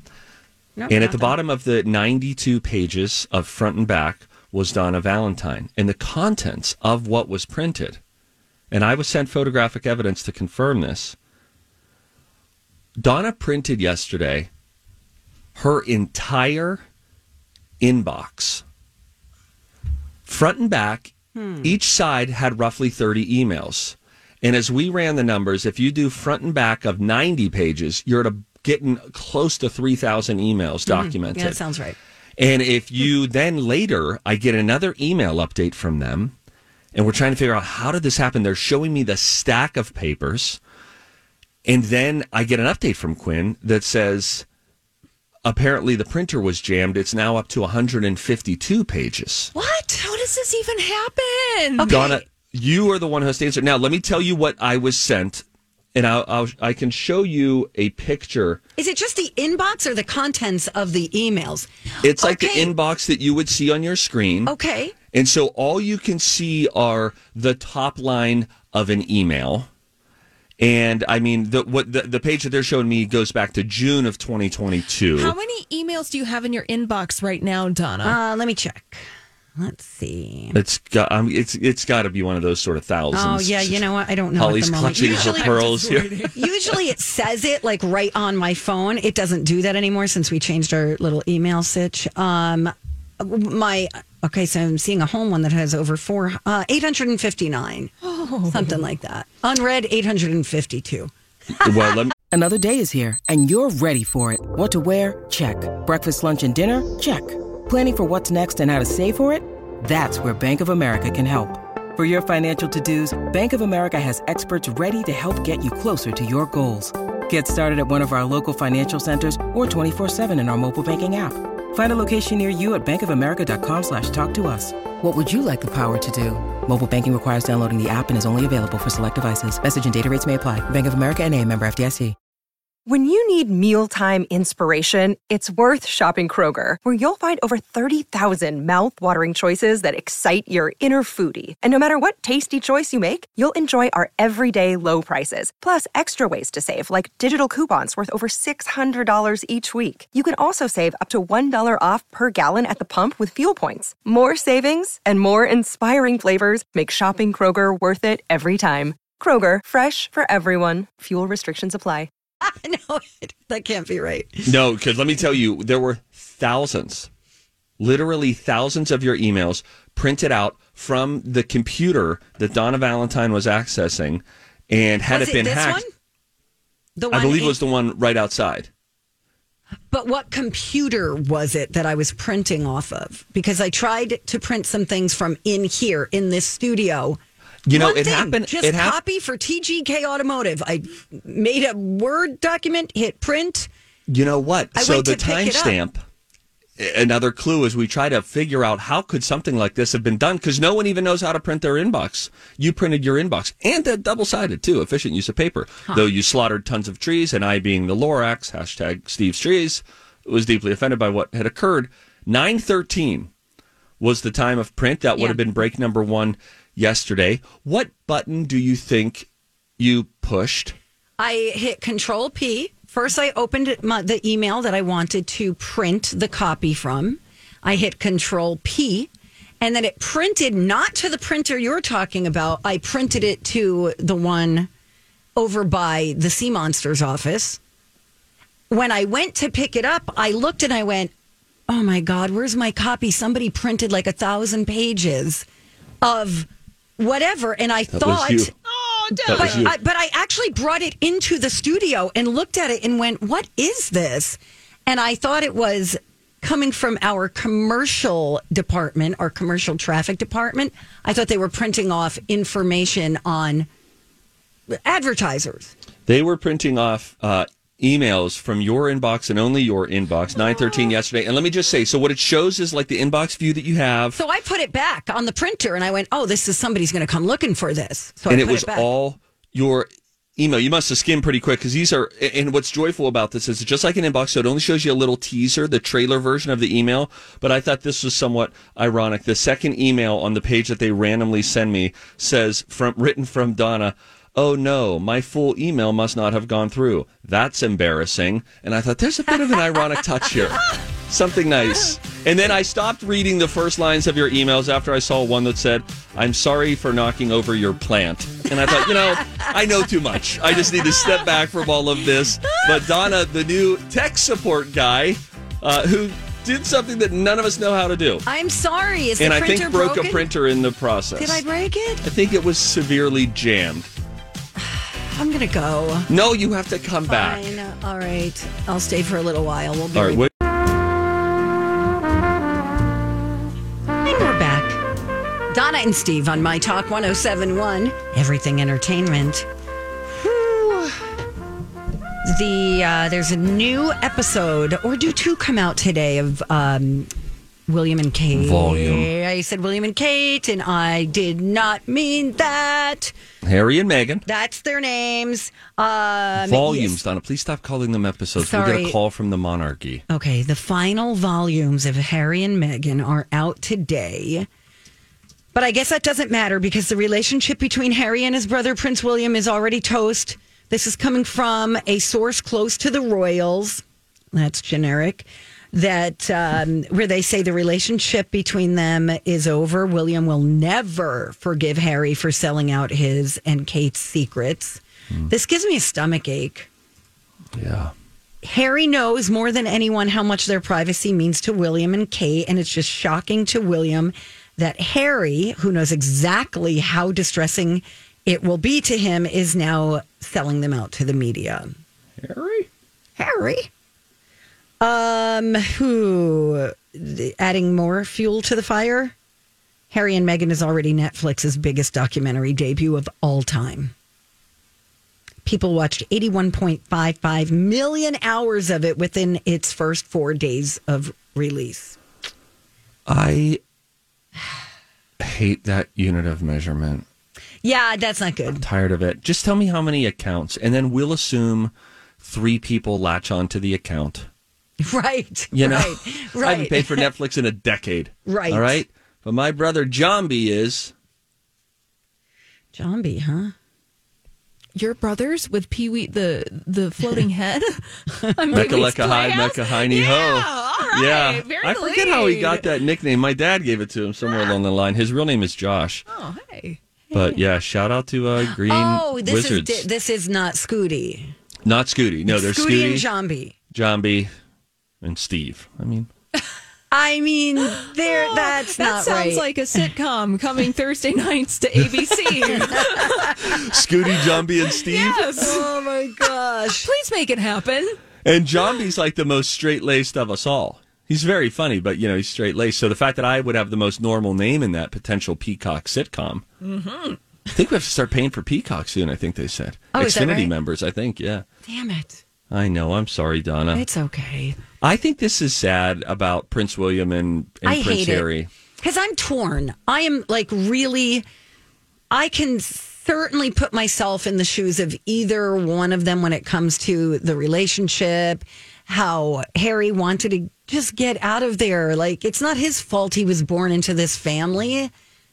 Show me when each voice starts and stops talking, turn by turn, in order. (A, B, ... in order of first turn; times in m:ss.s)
0:00.8-0:01.3 A
0:00.9-0:08.0 B
0:08.7-0:11.2 B
0:13.0-0:14.5 B
0:15.5-0:16.8 B
0:17.8-0:18.6 B
0:20.2-0:31.6 B
0:21.3-0:21.8 A
0:30.9-0:32.0 A
0:32.4-0:36.3 B
0:36.9-0:40.6 B
0:41.6-0:44.4 B
0:45.4-0:49.5 B
0:49.5-0:50.0 A
0:50.0-0:51.9 C
0:51.8-0:52.2 A
0:51.9-0:58.6 B
0:58.8-1:02.7 A
1:02.0-1:04.5 B
1:04.4-1:04.9 A
1:05.1-1:09.7 B
1:10.6-1:15.4 B
1:15.2-1:18.2 C
1:18.0-1:19.0 A
1:19.6-1:20.6 A
1:20.5-1:23.8 B
1:23.1-1:25.6 A
1:24.4-1:26.3 B
1:25.0-1:26.7 C
1:26.3-1:37.9 A
1:38.0-1:38.8 C
1:38.5-1:41.1 A
1:41.6-1:42.1 B
1:42.3-2:12.2 D
2:12.8-2:42.1 E
2:42.4-2:44.5 A
2:44.4-2:47.1 B
2:47.8-2:55.8 B
2:55.1-2:55.9 A
2:57.0-2:57.6 A
2:57.1-2:58.7 B
2:59.9-3:07.2 A
3:07.6-3:09.0 B
3:07.7-3:13.7 A
3:14.1-3:16.0 B
3:14.7-3:15.8 A
3:16.8-3:33.3 B
3:34.0-3:40.8 B
3:41.2-3:49.1 A
3:49.6-3:54.7 A
3:55.4-3:57.6 A
3:58.7-4:01.1 A
4:01.7-4:05.4 A
4:06.0-4:08.5 A
4:07.9-4:08.5 B
4:08.6-4:09.7 C
4:09.1-4:23.7 A
4:09.3-4:09.7 B
4:24.7-4:25.7 A
4:26.0-4:34.2 B
4:34.2-4:38.9 A
4:38.3-5:18.2 B
5:08.6-5:09.5 A
5:12.5-5:12.8 A
5:18.2-5:20.3 A
5:19.2-5:21.4 B
5:21.2-5:22.0 A
5:22.0-5:23.9 B
5:24.6-5:26.1 A
5:26.1-5:27.5 B
5:27.1-5:30.3 A
5:29.9-5:30.3 B
5:34.0-5:34.8 A
5:35.5-5:39.5 A
5:40.1-5:41.0 A
5:42.2-5:47.1 A
5:47.7-5:53.1 A
5:48.3-5:49.1 B
5:53.4-5:54.2 B
5:54.2-5:57.0 A
5:56.4-6:00.0 B
5:58.4-5:59.0 A
6:00.1-6:04.5 A
6:05.5-6:26.7 A
6:27.5-6:27.9 B
6:28.4-6:41.8 A
6:42.2-6:42.7 B
6:43.2-6:43.7 A
6:44.8-6:49.1 A
6:49.9-6:53.9 A
6:55.4-7:02.0 A
7:03.0-7:03.6 B
7:05.2-7:07.0 B
7:07.6-7:08.6 A
7:08.5-7:14.3 B
7:14.8-7:17.1 A
7:15.5-7:20.9 B
7:18.2-7:18.8 A
7:22.7-7:23.5 A
7:24.7-7:32.6 C
7:28.5-7:28.9 A
7:28.5-7:36.0 B
7:36.1-7:36.8 C
7:37.1-7:37.4 A
7:37.1-7:39.9 B
7:38.4-7:41.3 A
7:41.6-7:43.0 B
7:42.3-7:43.5 A
7:43.7-7:44.3 B
7:45.0-7:46.1 B
7:46.9-7:49.8 A
7:47.8-7:53.8 C
7:52.8-7:53.3 A
7:53.4-7:55.4 B
7:54.8-7:55.7 C
7:55.3-7:56.9 A
7:56.8-7:58.0 C
7:58.2-8:06.4 B
8:06.6-8:07.2 C
8:07.5-8:11.4 B
8:09.9-8:10.5 A
8:11.6-8:12.2 A
8:12.5-8:13.8 B
8:13.7-8:14.6 A
8:14.8-8:18.5 B
8:17.6-8:18.3 A
8:18.8-8:21.2 A
8:22.1-8:34.9 A